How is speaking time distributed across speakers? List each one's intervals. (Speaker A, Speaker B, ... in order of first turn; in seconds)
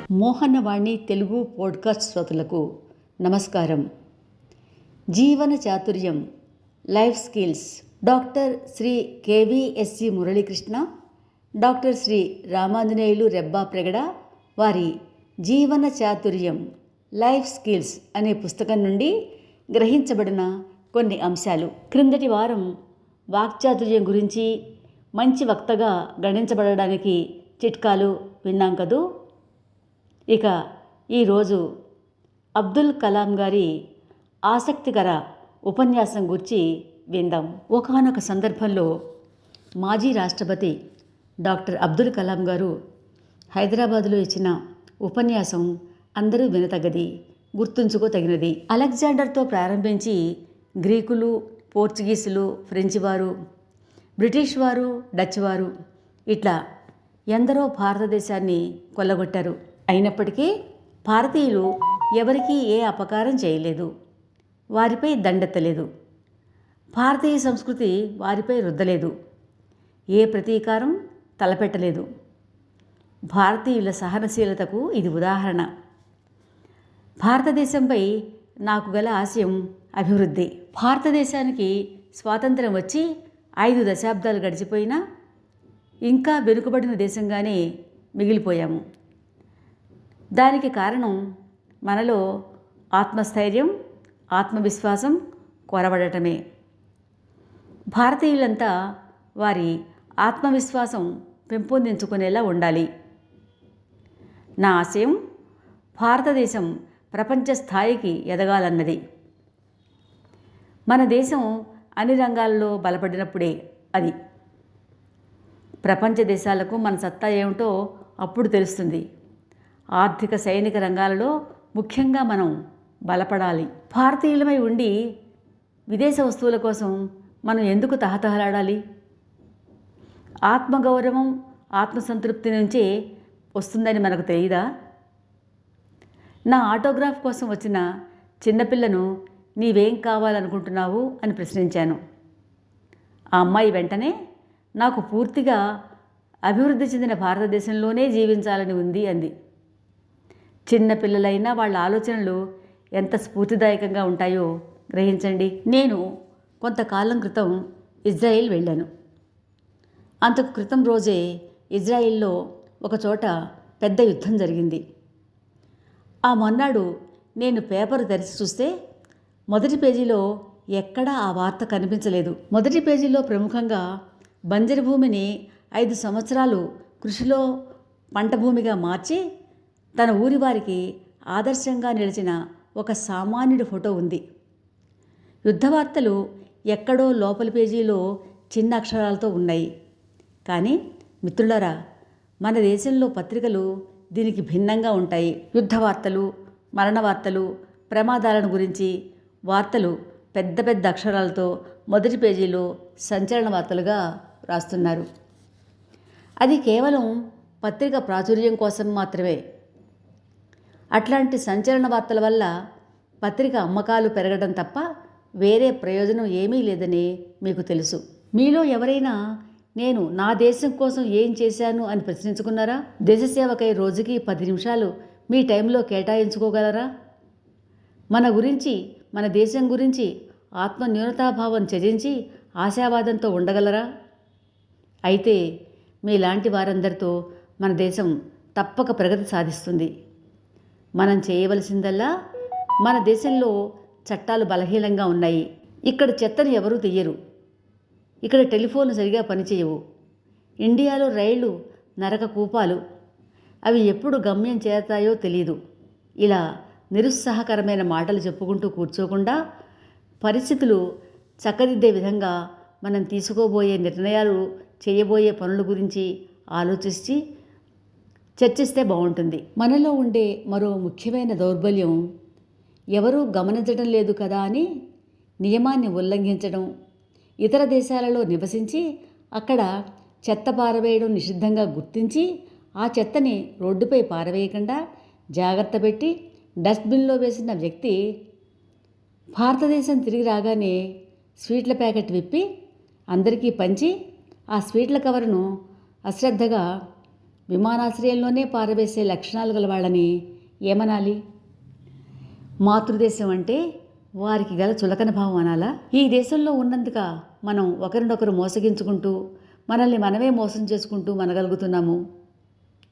Speaker A: 0.2-2.6, 3.2-3.9, 5.1-6.2, 6.9-10.8, 11.6-14.1, 14.6-14.9, 15.4-16.6, 17.2-19.1, 19.7-22.7, 23.4-24.5, 25.2-29.0, 31.1-31.6, 32.6-33.7, 34.5-38.9, 39.8-40.8, 41.5-42.7, 43.5-50.2, 50.8-53.3, 54.2-55.7, 56.3-56.5, 57.3-60.5, 61.1-63.9, 64.8-65.9, 67.0-69.1, 70.2-72.1, 73.3-75.7, 77.2-78.1, 78.7-83.1, 83.6-85.0, 86.1-87.6, 88.2-88.8, 90.4-91.2, 91.9-92.2, 93.0-93.7, 94.4-95.2, 95.7-96.4, 98.0-98.7, 99.4-102.9, 104.6-105.2, 106.0-109.0, 110.9-114.1, 115.8-117.7, 118.2-119.0, 120.0-122.5, 123.1-124.9, 125.9-127.0, 127.5-128.8, 130.5-132.9, 133.6-134.7, 136.5-137.8, 138.4-139.1, 139.6-142.0, 143.4-144.1, 144.8-145.6, 146.5-149.3, 150.7-152.4, 153.0-156.0, 156.6-158.9, 160.3-161.2, 161.8-162.3, 162.8-164.8, 166.3-166.9, 167.4-168.7, 169.5-170.2, 170.8-173.8, 174.5-177.4, 178.2-179.2, 180.0-180.8, 181.3-184.2, 185.5-186.2, 186.7-188.0, 188.5-189.7, 190.5-191.7, 192.4-198.9, 199.5-205.1, 206.4-207.1, 207.6-209.4, 211.0-212.5, 213.2-214.8, 215.4-219.2, 219.8-226.9, 228.1-233.8, 235.1-235.4, 236.1-239.9, 241.0-242.1, 242.8-243.5, 244.1-247.2, 248.3-249.8, 250.7-252.8, 253.7-255.6, 257.0-259.4, 260.2-260.8, 261.4-262.3, 262.9-267.2, 268.4-272.0, 273.0-274.7, 275.4-276.7, 277.4-278.8, 279.4-279.7, 280.3-282.3, 282.8-284.8, 285.4-286.1, 286.6-288.0, 289.4-290.8, 291.4-292.4, 293.1-293.9, 294.6-295.4, 296.1-296.6, 297.5-300.1, 300.7-301.2, 302.6-303.6, 304.2-309.1, 309.7-312.0